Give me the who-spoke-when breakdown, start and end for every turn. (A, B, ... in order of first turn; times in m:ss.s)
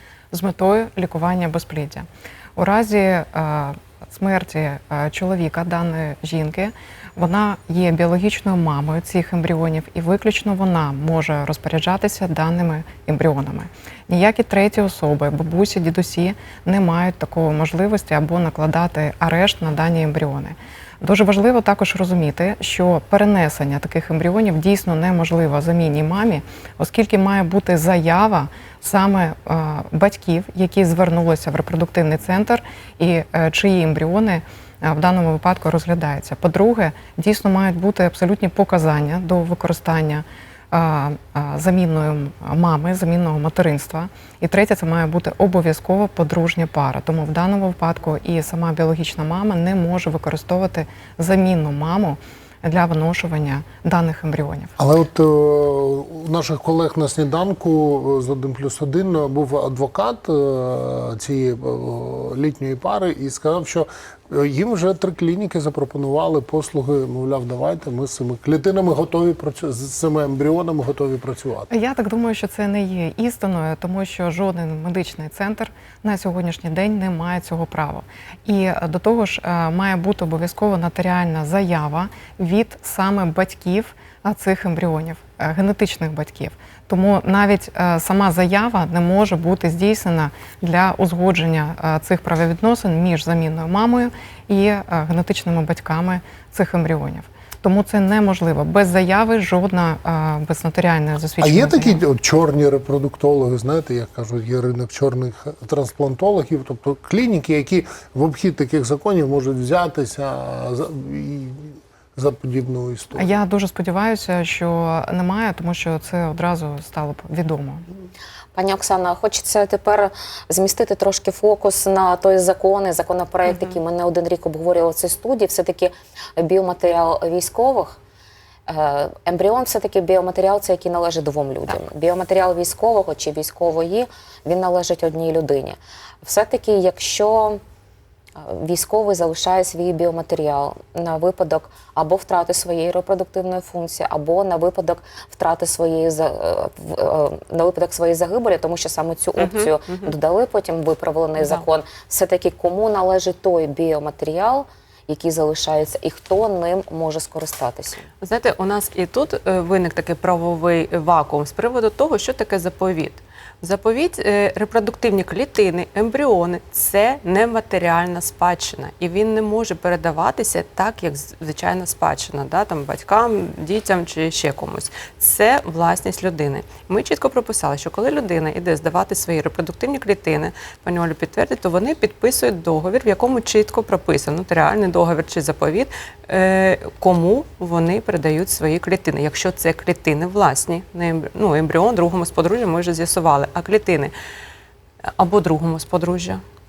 0:00.3-0:54.7 A
0:54.8-1:11.7 B
1:11.7-1:42.0 A
1:41.4-1:53.3 B
1:53.2-1:57.8 A
1:58.5-2:08.0 C
2:03.5-2:03.8 D
2:08.7-2:17.6 C
2:18.4-2:38.1 C
2:29.4-2:30.1 D
2:31.4-2:31.6 D
2:38.2-3:14.1 D
3:15.1-3:16.4 D